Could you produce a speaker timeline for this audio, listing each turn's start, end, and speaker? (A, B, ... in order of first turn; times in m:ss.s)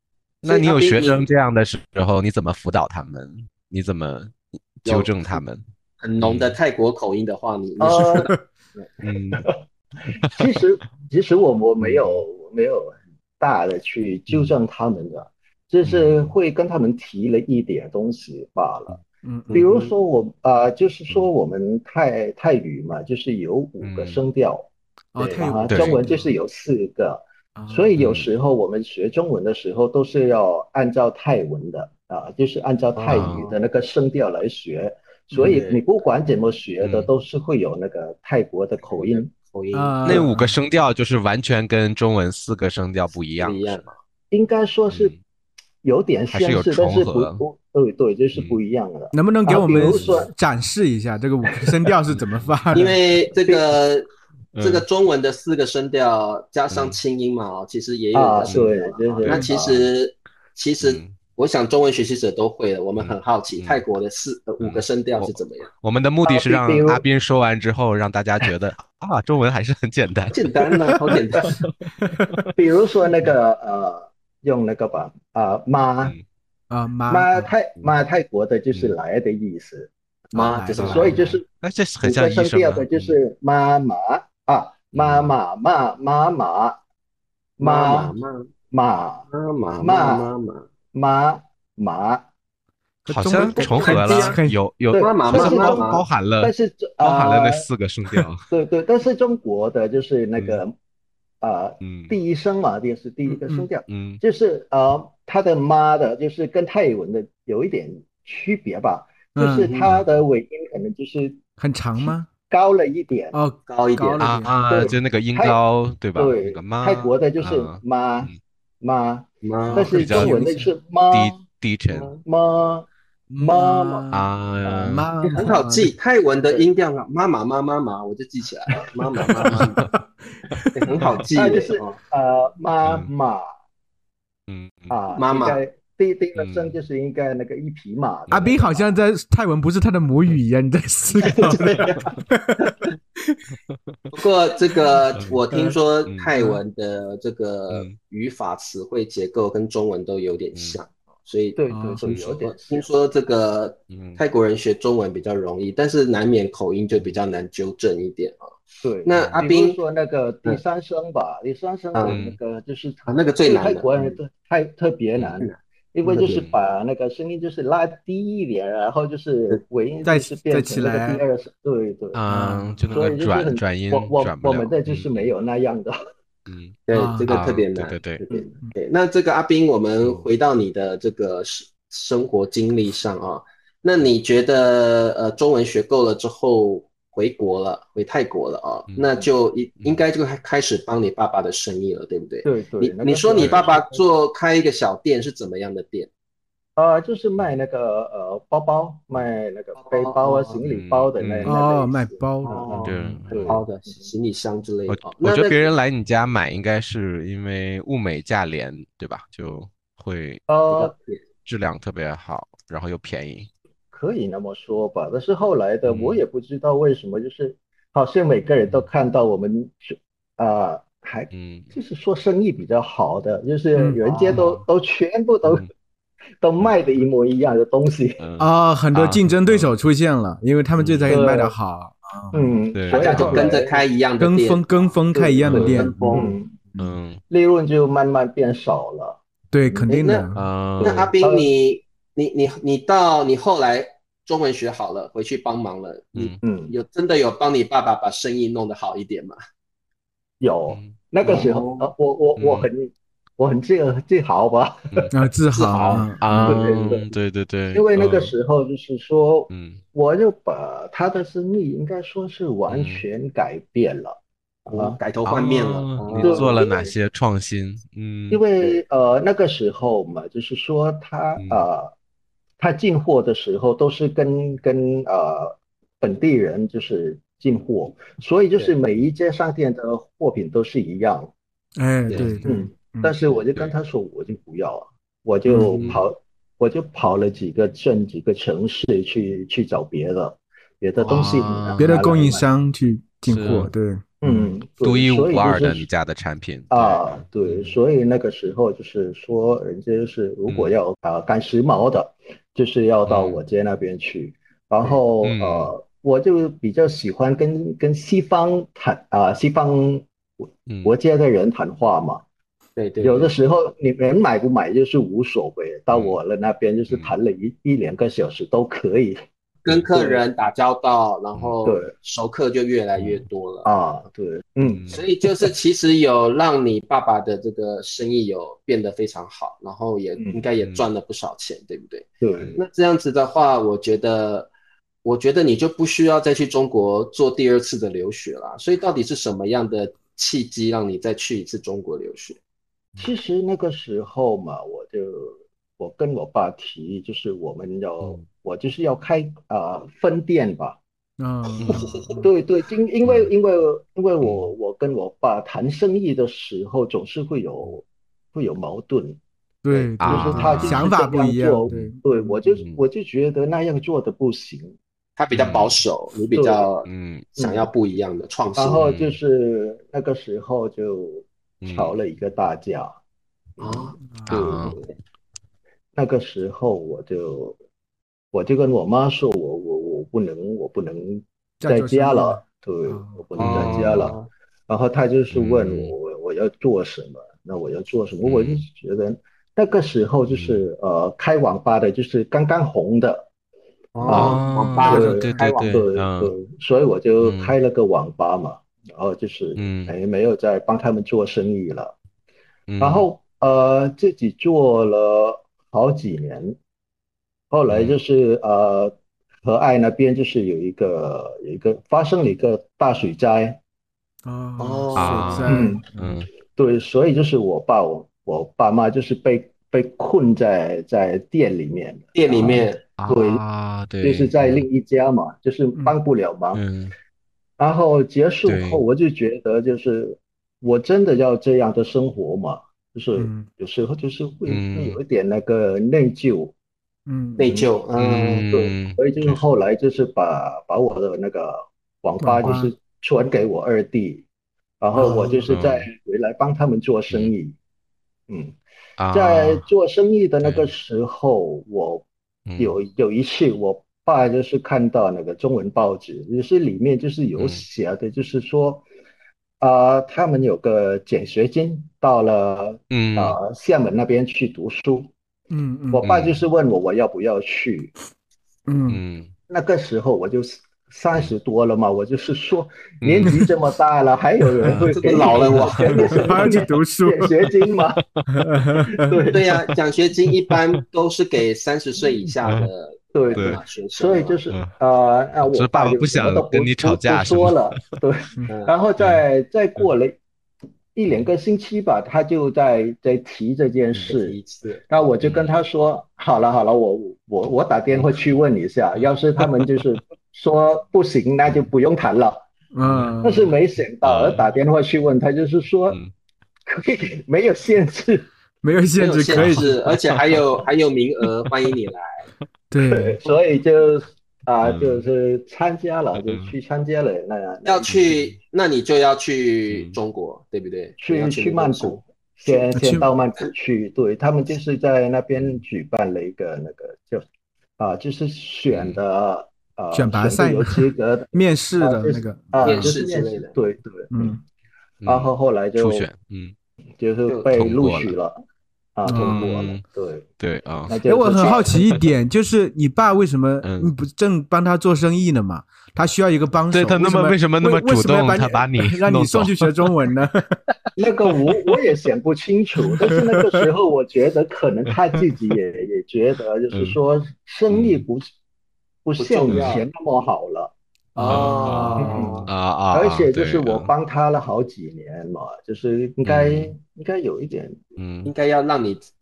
0:00.4-0:01.2 A
0:00.4-0:05.6 B
0:04.8-0:05.4 A
0:06.0-0:08.3 A
0:06.2-0:06.6 B
0:07.8-0:09.6 C
0:09.0-0:09.4 B
0:10.1-0:19.0 C
0:11.8-0:12.2 B
0:15.8-0:16.2 B
0:19.2-0:19.7 D
0:19.5-0:19.9 A
0:19.5-0:39.3 C
0:23.8-0:24.2 B
0:25.1-0:26.3 D
0:25.7-0:26.0 B
0:27.6-0:27.9 D
0:28.0-0:28.3 B
0:33.0-0:33.5 A
0:33.1-0:33.4 B
0:35.3-0:35.6 D
0:35.4-0:35.8 A
0:36.8-0:37.1 B
0:38.9-0:40.2 A
0:39.7-0:40.6 D
0:40.0-0:43.9 B
0:43.4-0:43.9 A
0:44.3-0:45.2 C
0:44.9-0:45.2 B
0:45.8-0:50.3 C
0:46.3-0:47.4 B
0:48.3-0:48.6 B
0:49.1-0:53.0 D
0:49.7-0:50.3 B
0:52.1-0:52.5 B
0:52.7-1:05.7 A
0:54.5-0:54.8 B
0:56.7-0:57.0 B
0:58.1-0:59.9 C
0:59.2-0:59.5 B
1:00.8-1:01.2 B
1:03.0-1:03.8 B
1:04.6-1:12.5 B
1:06.2-1:07.0 C
1:10.3-1:11.5 A
1:12.5-1:16.2 C
1:16.7-1:17.5 D
1:17.1-1:19.9 C
1:20.3-1:20.9 D
1:20.3-1:21.2 A
1:20.7-1:23.2 B
1:20.8-1:21.4 C
1:22.0-1:26.8 C
1:25.0-1:25.3 B
1:27.6-1:28.1 C
1:27.6-1:28.5 A
1:28.7-1:29.3 C
1:29.3-1:30.7 A
1:29.8-1:30.3 C
1:30.9-1:32.2 C
1:33.0-1:34.6 D
1:33.1-1:38.5 B
1:33.5-1:34.4 A
1:34.9-1:37.6 C
1:34.9-1:36.0 A
1:38.5-1:40.7 C
1:40.4-1:40.6 B
1:41.4-1:51.4 C
1:41.8-1:42.2 B
1:43.3-1:43.7 D
1:43.9-1:44.2 B
1:49.4-1:49.7 D
1:49.6-1:50.0 A
1:51.6-1:52.3 D
1:52.0-1:53.4 C
1:53.3-1:54.5 D
1:53.7-1:54.8 A
1:54.2-1:58.4 B
1:54.7-1:55.6 C
1:56.1-2:01.4 C
1:59.4-1:59.9 A
1:59.7-2:00.6 B
1:59.8-2:00.7 D
2:01.1-2:02.1 B
2:01.9-2:02.2 A
2:02.2-2:04.0 C
2:03.3-2:04.3 D
2:04.1-2:05.0 B
2:04.6-2:05.4 C
2:04.8-2:05.9 D
2:05.3-2:09.8 A
2:08.7-2:11.2 D
2:09.3-2:09.9 B
2:10.8-2:12.0 A
2:11.3-2:13.4 C
2:12.8-2:13.1 B
2:14.5-2:14.9 B
2:14.9-2:18.9 C
2:15.1-2:15.6 A
2:16.4-2:16.8 B
2:18.3-2:18.5 B
2:18.3-2:21.8 D
2:21.2-2:22.1 A
2:21.8-2:22.1 B
2:22.3-2:22.7 D
2:23.7-2:24.0 B
2:24.1-2:38.4 A
2:25.1-2:25.4 B
2:25.5-2:25.8 D
2:26.3-2:26.6 D
2:27.7-2:28.0 B
2:31.6-2:32.9 C
2:31.7-2:32.0 D
2:33.9-2:34.2 B
2:38.8-2:52.2 C
2:39.0-2:39.8 A
2:39.1-2:39.4 B
2:41.9-2:42.2 A
2:42.0-2:42.4 B
2:43.1-2:44.2 A
2:46.0-2:46.4 A
2:50.0-2:51.2 D
2:52.1-2:55.1 B
2:52.3-2:52.7 D
2:52.9-2:56.0 C
2:56.5-2:58.2 B
2:56.9-3:16.1 A
2:56.9-2:57.4 D
3:00.0-3:00.2 B
3:12.4-3:14.0 C
3:13.3-3:13.7 B
3:16.8-3:24.1 C
3:19.8-3:20.6 A
3:20.7-3:21.5 B
3:21.4-3:23.4 D
3:22.4-3:22.8 A
3:22.8-3:23.6 B
3:23.4-3:25.7 A
3:24.9-3:30.5 B
3:30.5-3:30.9 C
3:30.7-3:31.2 A
3:31.4-3:33.5 B
3:33.9-3:45.7 C
3:35.8-3:36.2 B
3:41.3-3:41.7 B
3:43.8-3:44.0 D
3:44.0-3:44.4 A
3:44.3-3:44.6 B
3:45.4-3:45.7 B
3:46.4-3:48.2 C
3:48.2-3:49.7 B
3:48.4-3:52.6 D
3:50.8-3:51.2 B
3:51.1-3:51.6 C
3:52.3-3:53.8 C
3:52.7-3:53.4 B
3:52.9-3:55.0 A
3:54.2-3:56.0 D
3:55.1-3:56.6 C
3:55.4-3:56.2 B
3:55.5-3:56.3 A
3:56.8-3:57.2 B
3:57.3-3:59.2 C
3:59.5-4:00.5 D
3:59.9-4:00.2 A
4:00.3-4:01.1 B
4:00.8-4:09.4 A
4:00.8-4:01.5 C
4:06.4-4:06.7 C
4:10.4-4:15.1 C
4:11.2-4:11.9 A
4:12.4-4:12.7 B
4:15.1-4:16.6 D
4:15.5-4:16.1 A
4:16.2-4:18.3 B
4:16.4-4:17.1 C
4:17.7-4:25.0 C
4:19.5-4:19.8 B
4:22.7-4:23.0 B
4:24.7-4:26.6 A
4:25.2-4:28.4 B
4:26.1-4:26.9 C
4:28.3-4:31.9 C
4:31.4-4:31.6 B
4:32.6-4:41.3 C
4:41.8-4:43.1 D
4:42.1-4:42.4 A
4:42.2-4:42.5 B
4:42.4-4:52.4 C
4:45.5-4:46.0 A
4:45.6-4:46.0 B
4:51.0-4:51.6 A
4:51.1-4:51.8 B
4:51.8-4:54.0 D
4:53.2-4:53.7 B
4:54.2-4:55.9 C
4:54.2-4:57.8 B
4:56.7-5:12.2 C
5:00.5-5:00.7 B
5:03.1-5:03.4 B
5:05.2-5:05.7 B
5:10.7-5:10.9 B
5:12.8-5:13.3 A
5:13.0-5:19.2 C
5:15.9-5:16.2 B
5:16.9-5:17.2 B
5:19.6-5:23.7 A
5:19.9-5:20.2 C
5:21.6-5:21.9 C
5:23.0-5:23.2 B
5:23.6-5:25.5 C
5:24.6-5:25.0 B
5:24.9-5:34.5 A
5:30.2-5:30.4 C
5:30.6-5:30.9 B
5:32.2-5:32.6 C
5:35.0-5:42.4 A
5:43.0-5:50.8 C
5:51.2-5:52.3 D
5:52.2-5:59.2 C
5:53.0-5:53.3 B
5:54.2-5:54.5 B
5:59.6-6:02.3 D
5:59.7-6:04.8 C
6:00.0-6:00.9 B
6:05.2-6:08.9 A
6:05.3-6:05.8 B
6:06.3-6:06.7 C
6:06.8-6:07.3 B
6:07.4-6:07.7 C
6:08.6-6:13.0 C
6:08.8-6:09.2 B
6:11.6-6:12.0 B
6:13.6-6:14.8 C
6:13.6-6:14.9 A
6:14.0-6:14.4 D
6:14.3-6:14.8 B
6:16.0-6:17.6 C
6:18.3-6:24.2 C
6:21.6-6:23.2 D
6:23.4-6:24.0 B
6:23.4-6:24.3 A
6:24.7-6:33.3 C
6:25.3-6:25.9 B
6:28.2-6:28.6 B
6:30.3-6:30.6 B
6:33.9-6:35.2 A
6:34.0-6:41.9 C
6:34.1-6:36.3 B
6:34.8-6:35.6 D
6:37.2-6:37.5 B
6:39.6-6:39.9 B
6:42.7-6:43.1 B
6:42.8-6:46.6 C
6:47.5-6:53.6 C
6:47.7-6:48.0 B
6:54.2-6:56.1 D
6:54.6-6:55.5 A
6:55.0-6:56.3 B
6:55.5-6:55.9 C
6:56.5-7:03.4 C
7:02.1-7:02.8 A
7:03.0-7:04.7 B
7:04.0-7:06.6 C
7:06.5-7:06.9 B
7:07.6-7:16.5 C
7:08.4-7:08.8 B
7:13.2-7:13.5 D
7:14.5-7:15.0 B
7:17.1-7:17.5 D
7:17.4-7:18.5 A
7:18.0-7:19.4 B
7:18.5-7:24.2 C
7:22.2-7:22.7 D
7:24.8-7:27.5 C
7:25.0-7:25.4 A
7:25.0-7:25.3 D
7:25.5-7:25.9 B
7:27.1-7:27.3 B
7:28.3-7:28.6 C
7:29.0-7:29.7 B
7:29.1-7:32.1 C
7:30.4-7:30.7 B
7:32.5-7:32.8 B
7:32.6-7:38.8 C
7:37.4-7:37.6 B
7:39.6-7:45.1 C
7:42.9-7:43.4 B
7:45.5-7:46.0 D
7:45.9-7:47.9 C
7:46.0-7:46.4 B
7:48.7-7:49.0 D
7:48.9-7:49.3 B
7:49.5-7:58.0 C
7:53.0-7:53.4 B
7:54.6-7:56.3 B
7:55.0-7:56.5 A
7:56.2-7:57.3 D
7:58.0-7:58.3 B
7:58.3-7:59.1 D
7:58.9-7:59.7 C
7:59.3-8:04.4 A
8:03.1-8:10.2 C
8:03.3-8:03.6 B
8:05.4-8:07.7 B
8:08.5-8:08.7 A
8:09.0-8:09.2 B
8:10.9-8:14.4 C
8:14.0-8:14.8 A
8:14.9-8:22.4 C
8:15.2-8:15.6 B
8:22.7-8:23.5 D
8:22.8-8:23.1 B
8:23.2-8:26.0 C
8:24.0-8:24.4 B
8:26.6-8:28.3 C
8:28.6-8:29.7 D
8:29.0-8:32.2 A
8:29.4-8:30.4 B
8:32.7-8:33.2 D
8:32.8-8:37.9 C
8:34.6-8:35.0 B
8:36.2-8:36.5 B
8:37.6-8:42.0 A
8:37.9-8:38.3 B
8:39.7-8:40.0 B
8:41.0-8:47.2 C
8:42.7-8:43.1 D
8:45.3-8:45.6 B
8:47.8-8:54.4 C
8:48.7-8:49.0 B
8:49.9-8:52.9 D
8:52.6-8:53.5 A
8:54.1-8:54.4 D
8:55.0-8:56.5 B
8:55.0-8:56.1 C
8:57.0-8:58.4 C
8:57.3-8:57.5 A
8:57.5-8:58.2 B
8:59.0-9:00.3 C
8:59.0-8:59.4 D
8:59.1-8:59.8 B
9:00.4-9:01.0 B
9:00.9-9:01.8 C
9:01.0-9:10.5 D
9:01.3-9:01.7 A
9:03.6-9:03.9 B
9:06.7-9:09.7 B
9:11.0-9:18.3 C
9:16.7-9:17.0 B
9:17.7-9:18.0 B
9:19.0-9:27.9 C
9:19.2-9:19.8 A
9:19.4-9:19.7 B
9:21.1-9:22.3 D
9:21.2-9:23.9 B
9:21.2-9:22.5 A
9:26.2-9:26.7 B
9:28.0-9:28.3 B
9:28.2-9:29.0 A